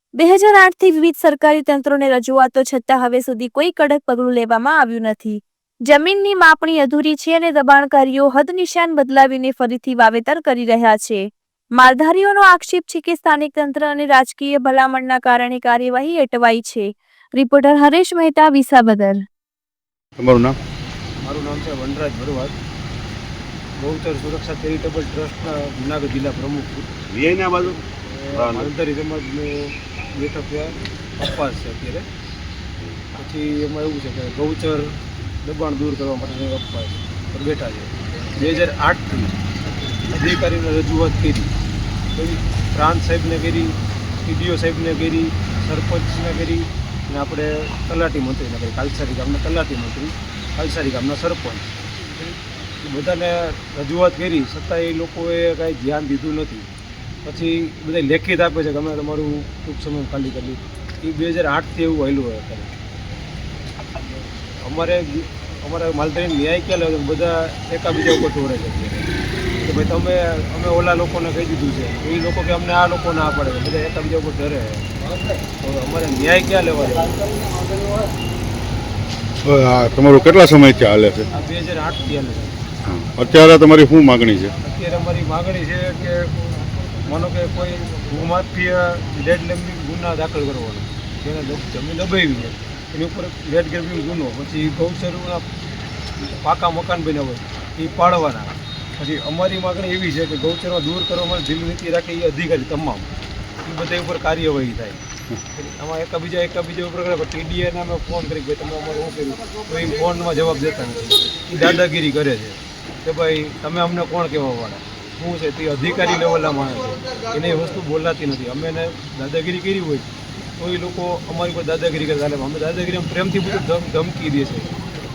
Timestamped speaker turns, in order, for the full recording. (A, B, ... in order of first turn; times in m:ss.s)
0:00.2-0:11.2 A
0:11.8-0:19.2 A
0:20.2-0:20.6 B
0:21.2-0:22.6 C
0:23.8-0:26.9 C
0:28.0-0:32.1 C
0:33.1-0:39.4 C
0:40.1-0:41.5 C
0:42.1-0:51.8 C
0:52.8-0:56.7 C
0:57.2-1:02.7 C
1:04.6-1:09.1 C
1:09.6-1:14.9 C
1:15.6-1:17.2 C
1:19.4-1:21.3 B
1:21.3-1:22.5 C
1:22.8-1:24.5 B
1:24.6-1:26.3 C
1:27.0-1:35.4 C
1:36.2-1:43.1 C
1:43.6-1:45.0 C
1:45.5-2:04.8 C